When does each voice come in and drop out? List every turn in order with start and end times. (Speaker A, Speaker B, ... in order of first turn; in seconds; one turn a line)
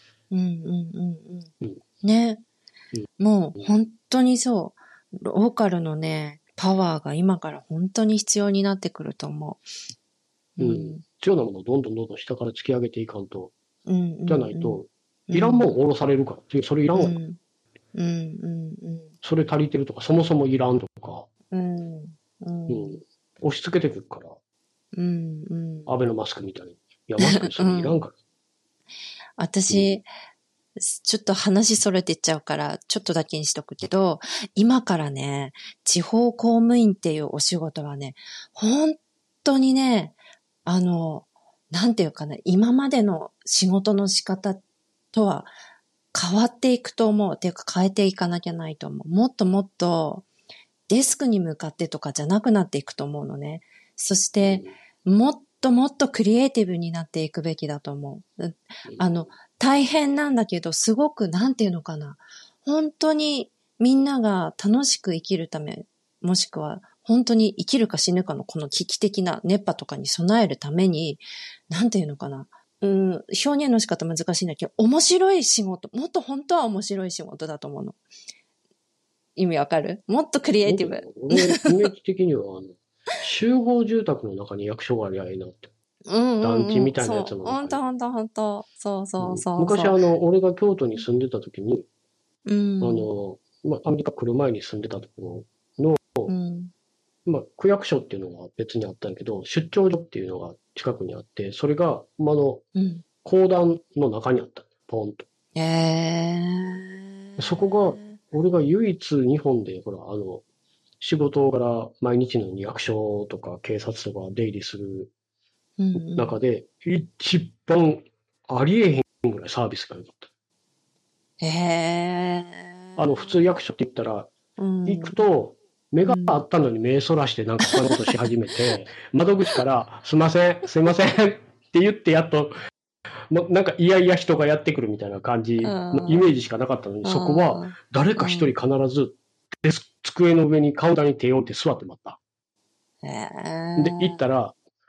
Speaker A: 0.3-1.5
Speaker A: 2.0-2.4
Speaker A: 3.2-9.8
Speaker A: 10.6-11.0
Speaker B: 10.6-13.5
Speaker A: 13.9-15.8
Speaker B: 14.3-17.2
Speaker A: 16.9-17.4
Speaker A: 17.9-19.1
Speaker B: 19.2-21.3
Speaker A: 21.5-23.0
Speaker B: 22.7-24.4
Speaker A: 24.9-25.9
Speaker B: 25.9-28.1
Speaker A: 27.2-28.0
Speaker A: 29.4-30.1
Speaker B: 29.7-30.0
Speaker A: 30.8-45.5
Speaker A: 46.1-50.3
Speaker A: 50.9-78.0
Speaker B: 54.4-54.7
Speaker B: 58.9-59.3
Speaker A: 79.4-81.9
Speaker B: 80.7-85.7
Speaker A: 86.1-90.0
Speaker B: 86.4-87.8
Speaker B: 89.2-91.9
Speaker A: 92.5-93.1
Speaker B: 92.8-96.3
Speaker A: 96.3-96.7
Speaker B: 97.3-102.6
Speaker A: 102.8-103.0
Speaker B: 103.2-105.2
Speaker A: 105.5-108.2
Speaker B: 107.4-110.4
Speaker B: 111.0-115.1
Speaker A: 115.8-116.4
Speaker B: 116.0-120.3
Speaker A: 121.4-123.3
Speaker B: 123.0-124.3
Speaker A: 124.6-125.2
Speaker B: 124.9-132.5
Speaker A: 126.0-126.4
Speaker A: 127.7-128.2
Speaker B: 133.3-142.2
Speaker A: 135.6-136.3
Speaker A: 137.0-138.5
Speaker A: 143.0-144.2
Speaker B: 143.8-144.6